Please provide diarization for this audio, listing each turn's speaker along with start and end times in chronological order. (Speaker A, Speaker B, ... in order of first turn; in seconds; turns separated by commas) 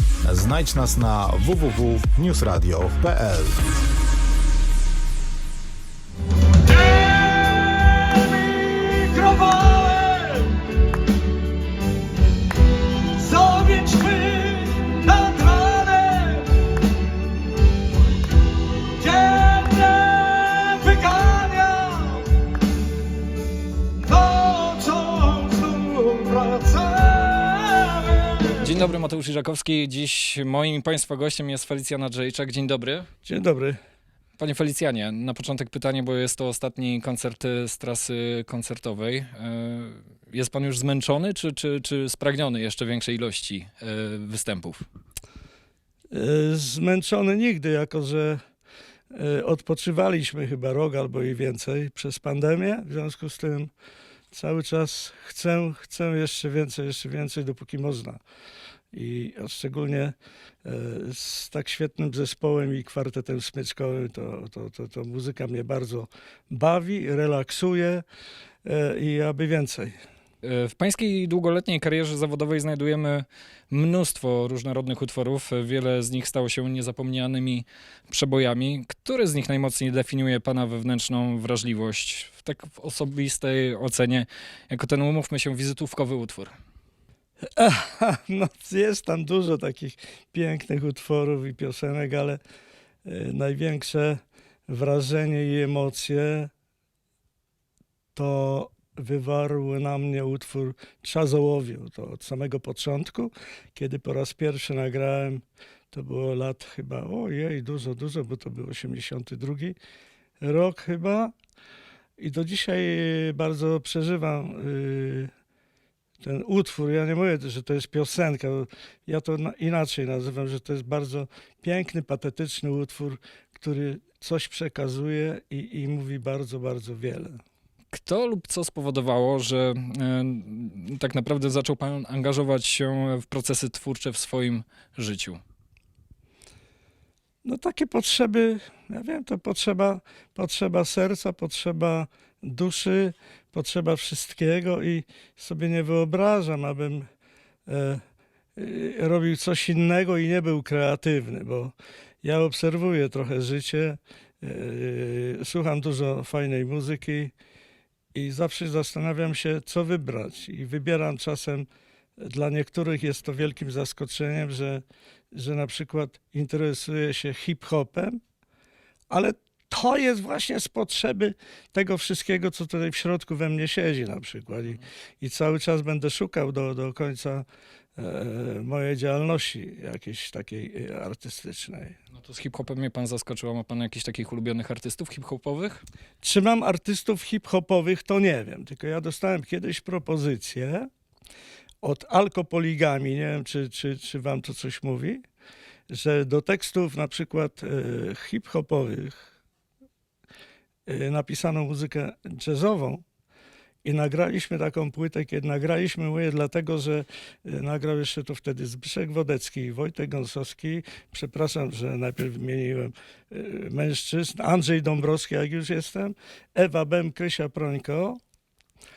Speaker A: 0.2-3.6, Speaker B: 6.7-10.6, Speaker B: 13.2-16.6, Speaker B: 19.0-22.3, Speaker B: 24.0-28.7, Speaker C: 28.6-33.1, Speaker B: 33.2-33.8, Speaker C: 34.4-44.9, Speaker B: 46.1-48.4, Speaker B: 49.1-53.7, Speaker B: 54.3-58.2, Speaker B: 58.9-68.0, Speaker B: 68.7-70.0, Speaker C: 70.4-86.5, Speaker B: 87.5-92.4, Speaker B: 93.0-96.5, Speaker B: 98.2-109.8, Speaker B: 110.4-111.3, Speaker B: 112.2-115.3, Speaker B: 116.2-127.4, Speaker C: 127.9-135.4, Speaker B: 137.4-147.1, Speaker B: 147.7-148.0, Speaker B: 148.6-157.3, Speaker B: 158.1-161.7, Speaker B: 162.2-168.2, Speaker B: 169.1-177.4, Speaker B: 178.0-182.0, Speaker C: 182.1-185.8, Speaker B: 186.2-190.9, Speaker B: 191.8-195.2, Speaker B: 195.9-199.3, Speaker B: 200.9-203.0, Speaker B: 203.8-218.2